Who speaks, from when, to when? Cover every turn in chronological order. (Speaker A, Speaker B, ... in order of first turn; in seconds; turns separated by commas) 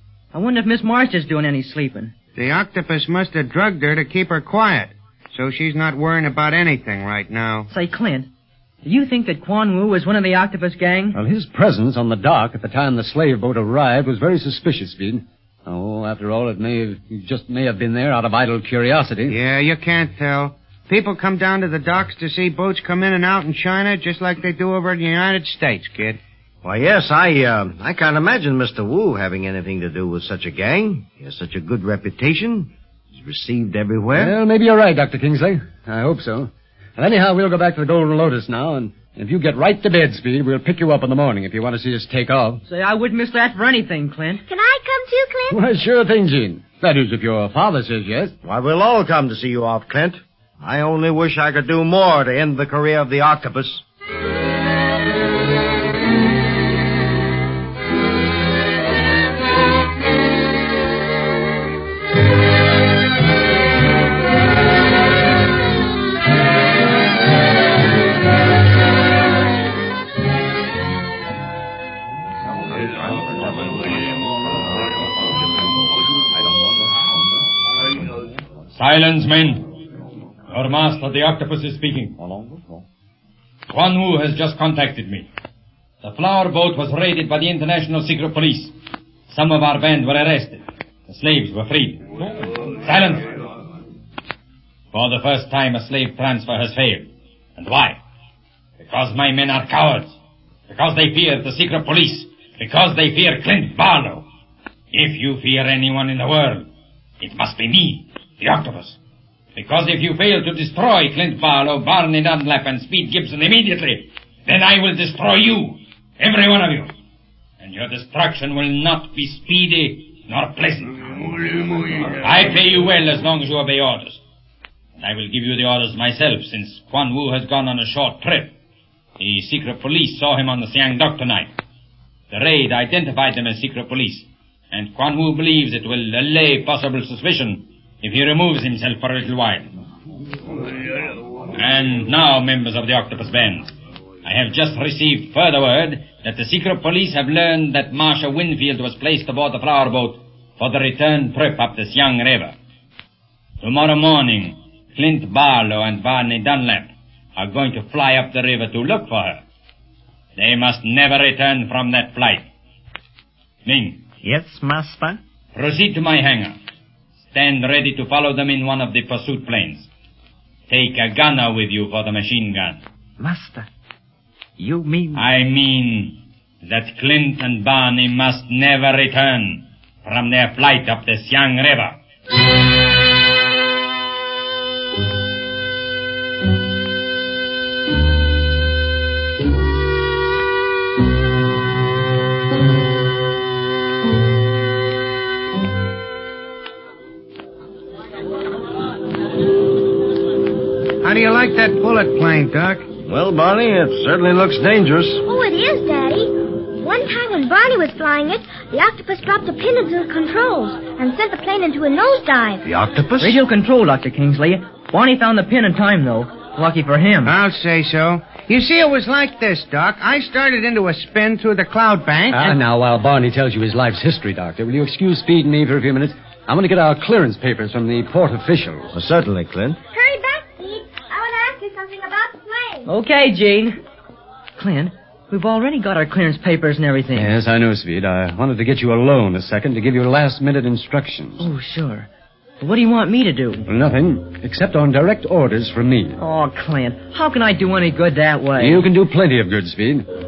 Speaker A: 0.3-2.1, Speaker B: 2.4-7.7, Speaker A: 7.7-8.3, Speaker A: 8.8-11.2, Speaker C: 11.1-19.3, Speaker B: 19.3-26.2, Speaker D: 26.6-34.3, Speaker C: 34.1-42.6, Speaker A: 42.7-44.4, Speaker E: 44.5-45.6, Speaker C: 45.5-48.3, Speaker D: 48.4-53.8, Speaker C: 73.3-73.8, Speaker C: 76.4-76.6, Speaker F: 78.7-79.7, Speaker F: 80.5-82.1, Speaker C: 82.2-82.6, Speaker F: 83.7-85.3, Speaker F: 86.0-88.7, Speaker F: 89.3-92.1, Speaker F: 92.8-93.3, Speaker F: 94.9-98.0, Speaker F: 98.8-100.1, Speaker F: 100.7-104.2, Speaker F: 104.9-106.7, Speaker F: 107.2-109.0, Speaker F: 109.5-116.9, Speaker F: 117.6-121.1, Speaker F: 122.1-124.2, Speaker F: 125.0-128.5, Speaker F: 129.2-131.5, Speaker F: 132.3-139.7, Speaker F: 141.5-143.7, Speaker F: 144.2-152.5, Speaker F: 153.6-159.4, Speaker F: 160.3-162.5, Speaker F: 163.6-164.0, Speaker G: 164.2-165.2, Speaker F: 165.5-166.6, Speaker F: 167.3-169.9, Speaker F: 170.7-172.8, Speaker G: 173.2-173.7, Speaker G: 174.6-175.2, Speaker F: 175.1-182.0, Speaker B: 201.0-202.9, Speaker D: 203.0-205.2, Speaker E: 205.2-212.6, Speaker D: 212.6-213.4, Speaker A: 213.2-217.3, Speaker B: 217.2-222.6, Speaker C: 222.3-228.9, Speaker D: 228.9-229.8, Speaker E: 229.9-232.9, Speaker A: 232.8-233.8, Speaker A: 234.6-237.3, Speaker C: 237.1-241.4, Speaker A: 241.4-242.1, Speaker A: 242.6-243.6, Speaker C: 243.6-246.2, Speaker A: 246.2-248.9, Speaker C: 248.6-250.1